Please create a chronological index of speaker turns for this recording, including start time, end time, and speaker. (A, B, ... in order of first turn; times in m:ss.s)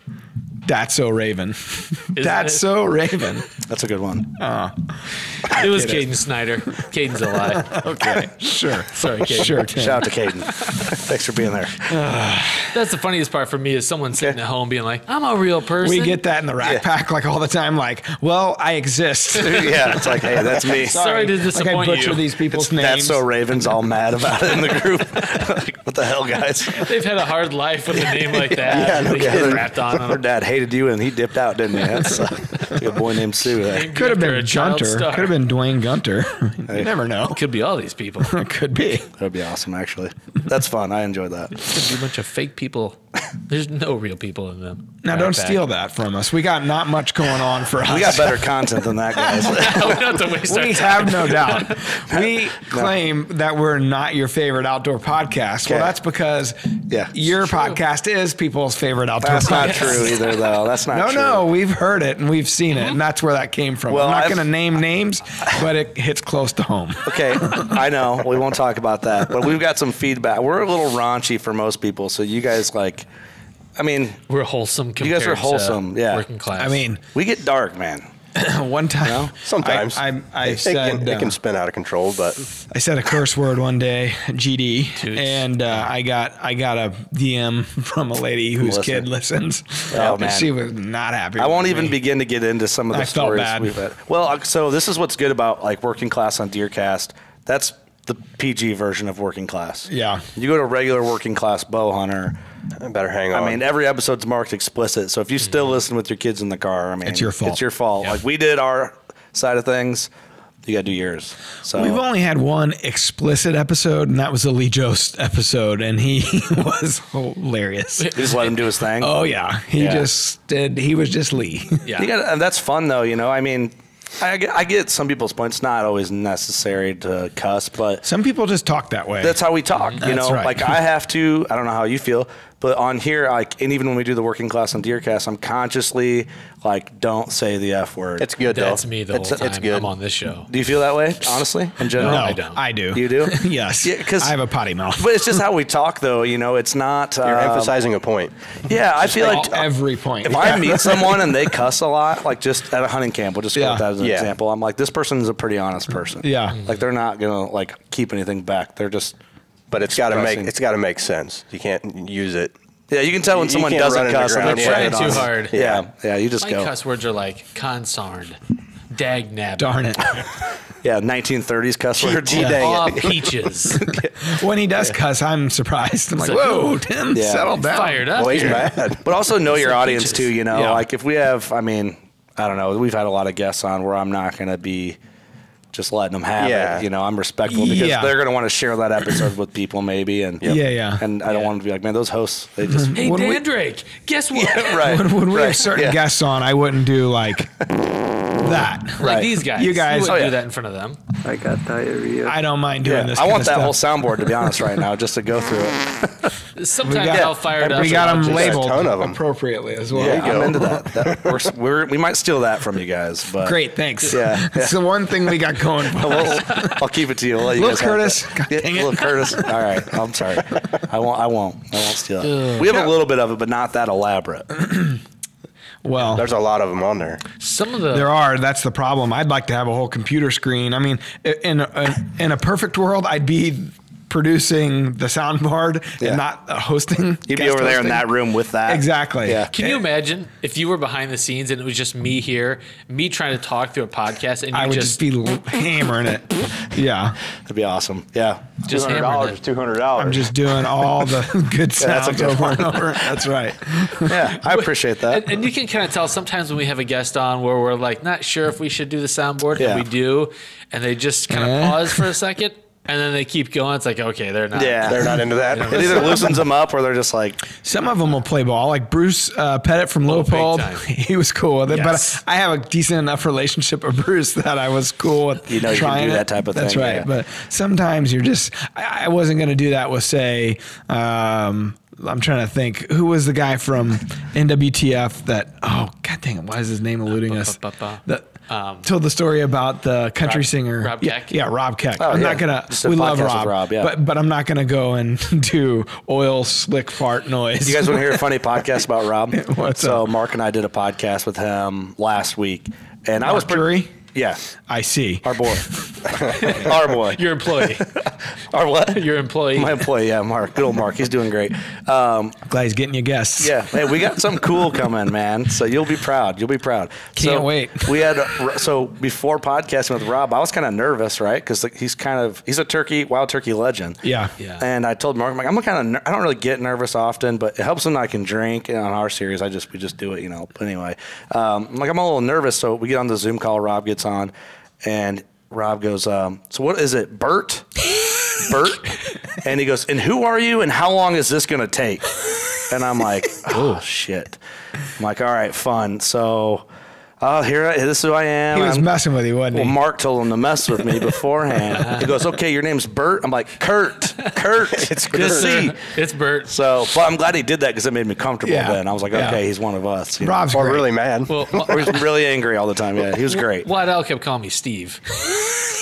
0:00.6-0:03.5 A
0:02.2-0:02.6 B
0:03.6-0:04.3 C
0:04.4-0:06.0 A
0:05.5-0:07.8 B
0:07.6-0:10.1 A
0:08.9-0:10.9 B
0:09.2-0:11.9 C
0:11.9-0:12.7 A
0:12.7-0:16.2 B
0:15.8-0:20.2 A
0:19.4-0:21.3 C
0:19.6-0:22.3 B
0:20.7-0:23.2 A
0:22.5-0:26.9 C
0:26.7-0:30.2 B
0:28.2-0:33.9 C
0:28.7-0:29.7 D
0:33.6-0:35.4 B
0:33.9-0:37.4 A
0:37.3-0:38.4 B
0:38.2-0:39.1 A
0:39.1-0:41.6 C
0:41.6-0:45.6 B
0:45.0-0:48.6 A
0:47.8-0:50.3 C
0:49.2-0:49.7 A
0:49.4-0:51.9 B
0:50.4-1:00.2 A
0:52.1-0:52.9 C
0:55.6-0:55.9 C
0:56.9-0:57.1 C
0:59.2-1:01.5 C
0:59.5-1:00.4 B
1:00.9-1:07.8 A
1:03.9-1:04.5 C
1:07.0-1:13.1 C
1:13.8-1:14.2 C
1:14.3-1:16.8 B
1:15.0-1:16.2 C
1:16.6-1:17.0 A
1:17.1-1:18.0 C
1:18.3-1:21.4 A
1:19.0-1:19.3 C
1:19.4-1:22.5 D
1:22.7-1:32.0 A
1:25.0-1:25.9 B
1:28.6-1:29.1 C
1:29.9-1:30.5 C
1:31.4-1:42.4 C
1:32.9-1:33.8 A
1:39.9-1:40.2 A
1:42.8-1:43.6 D
1:43.3-1:50.1 C
1:47.0-1:47.6 A
1:50.6-1:52.0 C
1:51.7-1:58.2 A
1:58.0-1:58.5 B
1:58.1-1:59.1 C
1:59.0-2:01.8 A
1:59.8-2:00.1 C
2:01.8-2:02.1 B
2:02.0-2:08.0 C
2:08.0-2:09.4 A
2:09.2-2:18.3 C
2:10.0-2:10.8 A
2:18.2-2:19.9 D
2:18.5-2:20.5 B
2:20.5-2:22.4 C
2:21.9-2:22.6 B
2:22.0-2:25.4 A
2:22.9-2:24.3 C
2:25.0-2:27.8 C
2:27.2-2:28.3 D
2:28.7-2:29.6 C
2:29.0-2:31.3 A
2:30.2-2:39.2 C
2:33.5-2:33.9 A
2:34.0-2:34.3 D
2:36.2-2:36.6 A
2:36.5-2:36.8 B
2:39.7-2:42.5 D
2:39.8-2:40.5 C
2:42.9-2:46.7 C
2:43.3-2:45.8 D
2:44.4-2:45.6 B
2:46.4-2:48.4 B
2:48.9-2:49.8 B
2:49.6-2:50.2 A
2:50.8-2:54.1 C
2:52.0-2:53.2 D
2:52.4-2:53.9 B
2:53.8-2:58.1 A
2:56.2-2:56.8 B
2:57.1-2:57.6 C
2:57.6-3:00.4 B
2:58.1-2:59.0 D
2:58.4-3:05.0 C
3:00.5-3:00.8 A
3:05.7-3:13.0 C
3:06.4-3:06.9 D
3:07.5-3:08.2 A
3:10.4-3:11.0 A
3:12.6-3:13.4 A
3:12.9-3:15.0 B
3:14.3-3:16.0 C
3:14.8-3:17.5 A
3:18.4-3:20.2 A
3:19.0-3:21.0 B
3:19.0-3:19.4 C
3:20.0-3:20.4 C
3:21.2-3:26.3 C
3:22.2-3:24.5 A
3:26.6-3:28.6 B
3:26.8-3:30.8 A
3:27.1-3:27.4 C
3:27.9-3:29.2 D
3:29.9-3:35.3 C
3:29.9-3:31.4 D
3:33.4-3:36.8 A
3:35.9-3:44.5 C
3:37.5-3:39.5 A
3:42.2-3:42.9 B
3:44.6-3:45.0 A
3:45.8-3:46.3 A
3:46.0-3:47.2 D
3:47.4-3:48.1 B
3:47.9-3:58.1 A
3:57.3-3:59.6 C
3:58.6-3:59.7 A
3:59.5-4:05.0 B
4:04.5-4:07.2 A
4:07.4-4:10.3 C
4:08.6-4:09.4 B
4:10.0-4:14.1 A
4:11.8-4:13.3 C
4:14.0-4:15.4 C
4:14.4-4:26.3 B
4:19.6-4:19.8 C
4:21.3-4:22.0 A
4:24.5-4:27.4 C
4:24.8-4:26.4 D
4:27.6-4:48.3 A
4:30.1-4:30.8 B
4:31.7-4:32.2 B
4:35.5-4:37.1 C
4:47.1-4:48.9 B
4:48.8-4:58.3 A
4:50.2-4:51.4 B
4:52.0-4:53.9 C
4:57.6-5:04.4 C
4:59.3-5:00.1 A
5:03.2-5:03.9 A
5:04.7-5:05.8 A
5:05.2-5:12.4 C
5:06.2-5:07.9 B
5:08.9-5:09.8 B
5:12.5-5:13.7 A
5:13.4-5:24.0 C
5:17.2-5:18.1 A
5:24.0-5:24.3 A
5:24.4-5:24.6 B
5:24.6-5:34.3 C
5:34.8-5:37.7 C
5:38.4-5:44.4 C
5:43.5-5:43.8 B
5:45.0-5:46.6 C
5:47.2-5:48.9 C
5:48.5-5:49.8 A
5:49.5-5:55.8 C
5:51.8-5:52.0 B
5:54.7-5:55.7 D
5:55.1-5:56.5 B
5:56.4-6:00.5 C
5:58.4-5:59.4 A
6:00.2-6:00.9 A
6:00.5-6:01.9 D
6:01.3-6:02.0 B
6:01.5-6:03.7 C
6:03.3-6:05.4 B